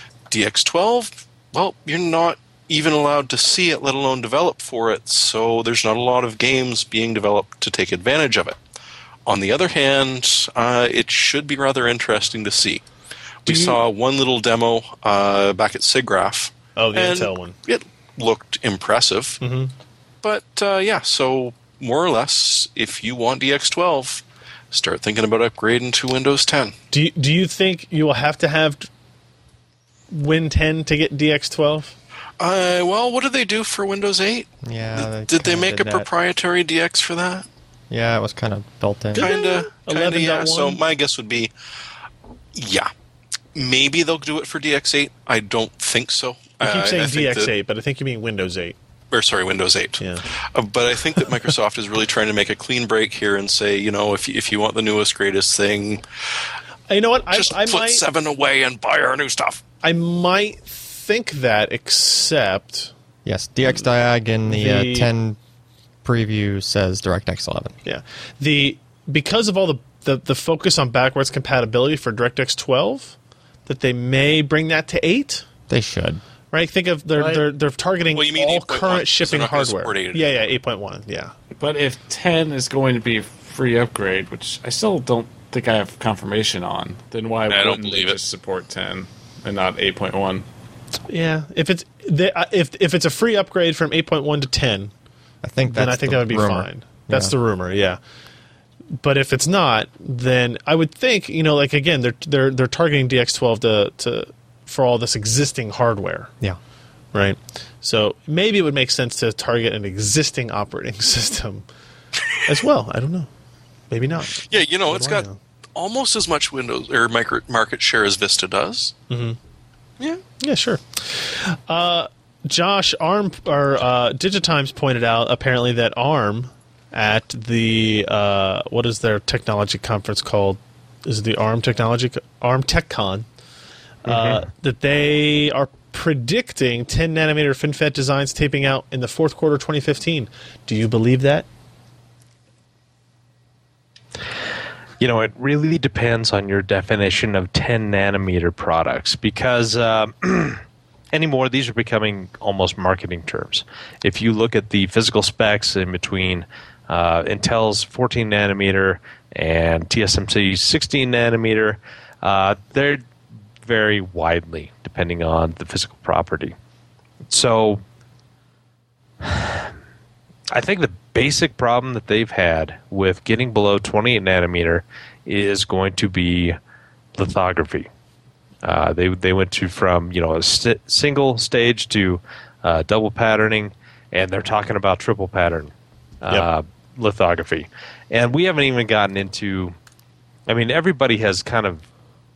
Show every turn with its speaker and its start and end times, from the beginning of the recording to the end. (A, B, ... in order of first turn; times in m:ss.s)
0:00.3-0:08.6 A
0:09.3-0:12.8 A
0:13.4-0:19.4 A
0:13.5-0:13.8 B
0:16.8-0:17.6 B
0:19.4-0:19.7 B
0:20.2-0:26.8 A
0:26.9-0:28.9 B
0:30.1-0:32.0 B
0:32.4-0:37.5 A
0:34.6-0:36.1 C
0:37.9-0:39.3 C
0:39.1-0:40.8 B
0:39.2-0:41.5 A
0:42.5-0:42.9 A
0:43.6-0:47.5 A
0:46.6-0:48.8 B
0:49.1-0:56.0 A
0:50.0-0:50.2 B
0:56.9-0:58.0 B
0:57.3-0:59.6 A
0:59.8-1:02.9 B
1:03.2-1:05.4 C
1:04.5-1:05.1 B
1:06.0-1:07.8 C
1:07.8-1:15.5 B
1:15.7-1:16.2 C
1:16.5-1:21.3 B
1:17.2-1:17.4 D
1:18.1-1:20.3 A
1:21.5-1:30.4 D
1:27.5-1:28.2 A
1:31.1-1:34.9 B
1:35.4-1:37.3 C
1:35.7-1:38.0 B
1:39.0-1:46.3 B
1:47.1-1:51.7 B
1:52.4-1:53.3 B
1:53.9-1:55.4 B
1:54.4-1:58.9 A
1:59.1-1:59.4 B
2:00.4-2:13.3 B
2:14.0-2:21.5 B
2:14.1-2:14.4 E
2:25.0-2:43.0 E
2:43.6-2:46.6 E
2:47.3-2:47.8 E
2:49.2-2:49.7 E
2:50.5-2:56.6 E
2:57.2-2:57.9 E
2:58.6-3:09.8 E
3:10.5-3:11.8 E